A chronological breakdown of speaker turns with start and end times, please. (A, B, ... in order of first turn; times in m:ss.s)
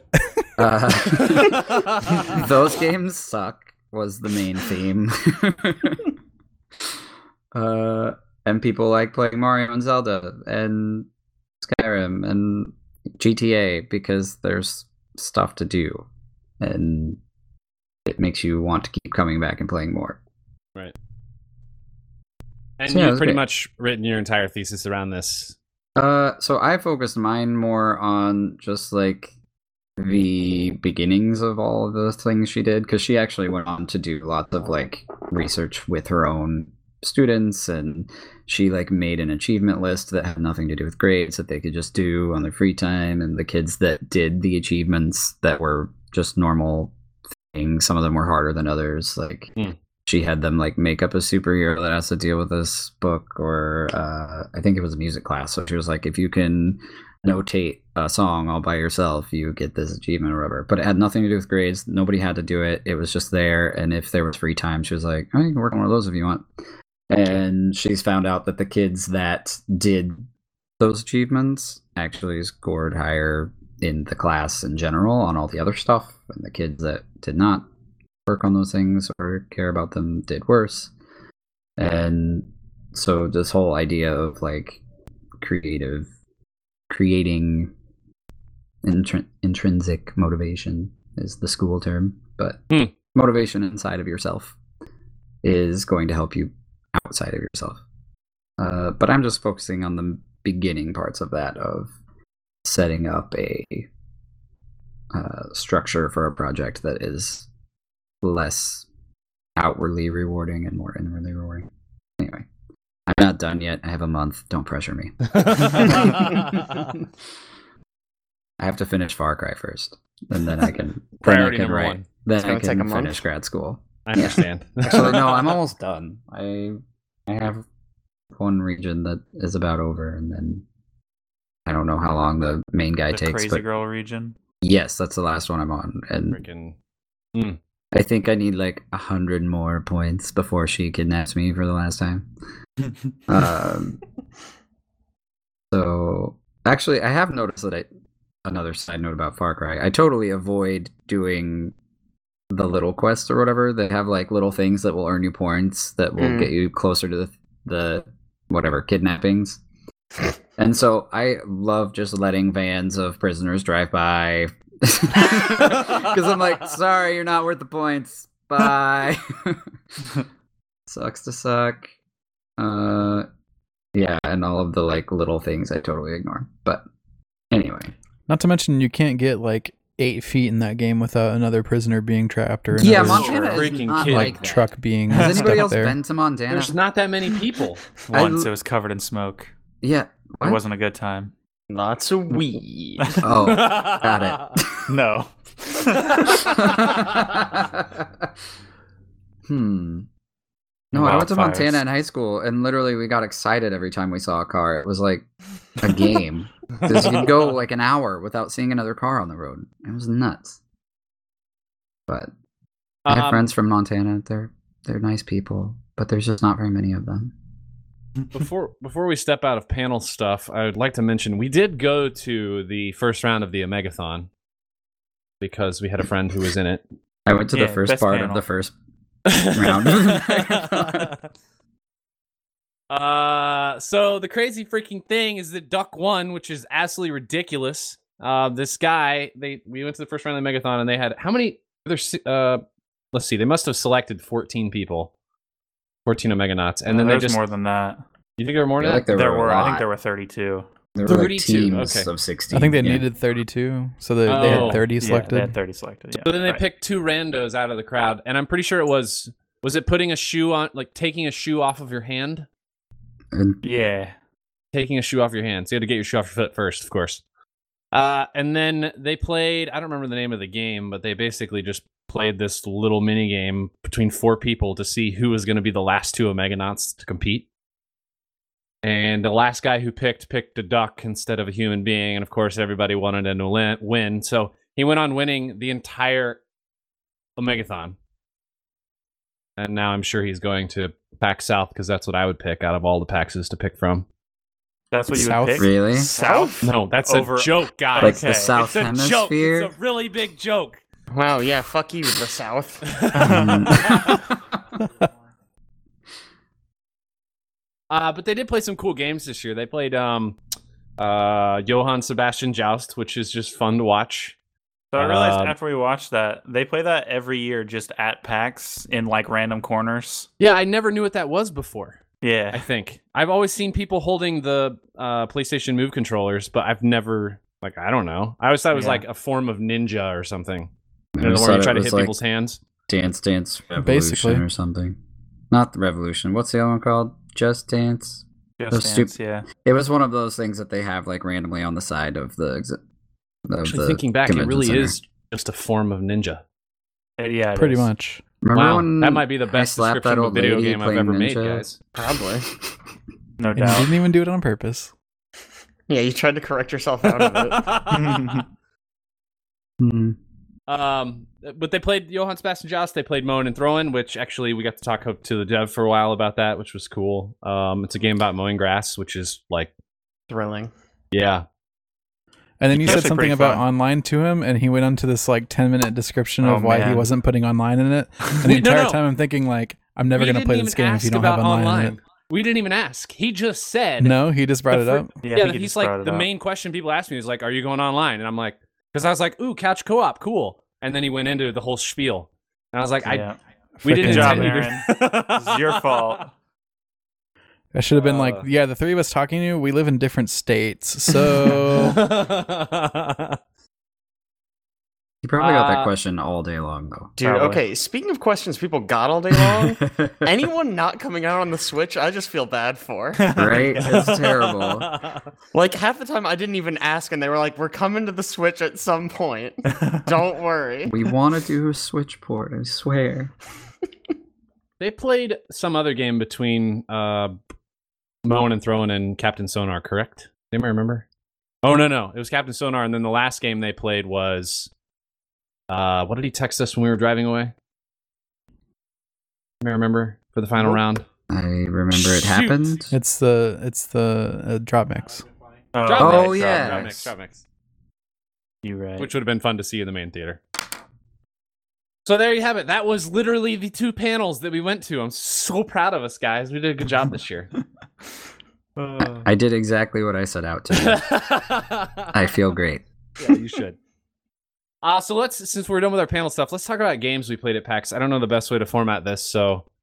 0:00.6-0:06.1 A
0:07.5-0:11.1 A
0:11.6-0:16.1 A
0:16.6-0:17.2 A
0:18.1-0:20.2 A
0:22.8-0:25.6 B
0:22.9-0:23.4 A
0:26.0-0:29.3 A
0:30.0-0:46.9 A
0:47.5-0:49.5 A
0:50.1-1:06.5 A
1:07.1-1:10.2 A
1:10.8-1:17.7 A
1:18.2-1:20.9 A
1:21.8-1:24.8 A
1:25.4-1:26.1 A
1:26.9-1:27.7 A
1:28.8-1:32.6 A
1:33.1-1:34.6 A
1:35.4-1:37.8 A
1:38.6-1:41.9 A
1:42.6-1:43.9 A
1:45.1-1:47.5 A
1:48.2-1:48.9 A
1:49.6-1:52.5 A
1:53.1-1:56.7 A
1:55.3-1:56.9 B
1:58.6-2:07.6 A
2:01.2-2:02.1 B
2:02.4-2:03.2 C
2:04.1-2:05.6 B
2:08.3-2:10.6 A
2:11.7-2:13.6 A
2:13.1-2:14.4 D
2:14.6-2:16.4 A
2:16.3-2:16.8 B
2:17.9-2:22.3 A
2:23.3-2:24.0 A
2:25.7-2:27.9 A
2:28.4-2:31.7 A
2:32.5-2:39.6 A
2:36.2-2:36.5 C
2:40.6-2:50.1 A
2:50.9-2:51.9 A
2:52.6-2:53.3 A
2:53.9-2:56.8 A
2:57.5-2:57.9 A
2:58.3-3:06.0 E
3:02.8-3:06.8 A
3:03.0-3:04.4 B
3:03.0-3:03.6 D
3:05.1-3:05.5 D
3:06.5-3:07.8 B
3:08.1-3:09.5 D
3:08.1-3:08.5 A
3:09.8-3:10.6 A
3:10.4-3:11.3 D
3:11.7-3:13.2 C
3:13.0-3:13.3 D
3:13.2-3:14.9 A
3:13.4-3:14.5 B
3:14.9-3:16.6 D
3:16.4-3:18.3 A
3:16.9-3:17.1 B
3:19.5-3:20.1 A
3:20.9-3:25.2 A
3:20.9-3:21.8 D
3:25.8-3:30.6 A
3:33.1-3:33.4 B
3:33.1-3:37.3 A
3:38.3-3:44.3 B
3:45.4-3:46.8 B
3:47.3-3:48.7 A
3:47.5-3:48.4 D
3:49.3-3:51.2 B
3:49.5-3:51.1 A
3:52.9-4:05.1 B
4:06.1-4:07.4 B
4:06.9-4:08.0 D
4:08.4-4:09.1 B
4:08.8-4:09.9 A
4:09.1-4:10.7 D
4:10.9-4:13.1 A
4:11.0-4:12.1 B
4:12.5-4:15.6 E
4:14.2-4:14.9 B
4:14.4-4:16.6 D
4:16.2-4:22.5 B
4:23.3-4:23.6 A
4:23.6-4:24.1 D
4:24.7-4:27.2 B
4:27.9-4:37.5 B
4:38.8-4:46.4 B
4:47.4-4:48.0 B
4:49.6-4:54.1 B
4:54.9-4:58.6 D
4:55.1-4:55.7 E
4:55.6-4:56.1 A
4:56.2-4:56.6 C
4:56.6-5:00.8 B
4:58.0-4:59.7 A
5:01.1-5:02.9 C
5:02.9-5:04.1 B
5:03.1-5:03.9 D
5:03.2-5:04.3 A
5:07.9-5:10.4 B
5:11.0-5:14.4 B
5:14.9-5:20.3 D
5:15.0-5:15.6 B
5:20.4-5:32.6 B
5:22.2-5:22.6 D
5:28.7-5:29.0 D
5:31.1-5:32.2 A
5:32.9-5:35.0 A
5:33.8-5:34.4 E
5:35.5-5:42.8 A
5:38.6-5:39.5 D
5:43.5-5:45.0 A
5:43.6-5:46.4 B
5:47.2-5:47.9 D
5:47.6-5:48.2 E
5:48.4-5:51.6 A
5:48.5-5:51.8 B
5:51.9-5:52.5 C
5:53.4-5:53.9 D
5:53.6-5:54.9 E
5:55.9-5:57.7 C
5:57.1-5:58.4 B
5:57.9-5:58.4 D
5:59.8-6:00.2 A
6:00.7-6:09.7 B
6:10.3-6:10.7 C
6:11.1-6:11.4 B
6:12.6-6:22.0 E
6:12.7-6:13.6 D
6:16.4-6:17.1 D
6:18.4-6:19.0 B
6:20.1-6:24.2 B
6:24.0-6:25.2 E
6:24.7-6:33.3 B
6:25.2-6:26.3 D
6:33.0-6:33.4 D
6:33.8-6:36.1 B
6:33.8-6:34.6 E
6:34.0-6:36.3 D
6:37.7-6:42.0 E
6:38.0-6:38.5 B
6:41.7-6:43.4 B
6:45.2-6:47.1 A
6:45.4-6:45.9 B
6:47.2-6:53.4 C
6:47.2-6:47.6 D
6:49.8-6:50.3 A
6:53.2-6:54.2 D
6:53.3-6:54.9 A
6:53.9-6:55.2 B
6:55.5-7:01.0 C
7:00.9-7:03.3 A
7:04.8-7:07.4 B
7:08.2-7:11.0 B
7:11.6-7:14.7 B
7:15.7-7:17.5 B
7:19.6-7:21.0 B
7:21.3-7:22.9 A
7:21.9-7:22.8 B
7:22.9-7:25.3 E
7:25.7-7:27.0 D
7:25.8-7:27.4 B
7:25.9-7:27.1 A
7:28.6-7:29.1 D
7:29.0-7:30.4 B
7:32.0-7:37.5 B
7:38.8-7:39.2 D
7:39.2-7:41.2 A
7:40.7-7:42.1 B
7:42.1-7:42.8 A
7:43.2-7:43.8 B
7:44.8-7:49.6 B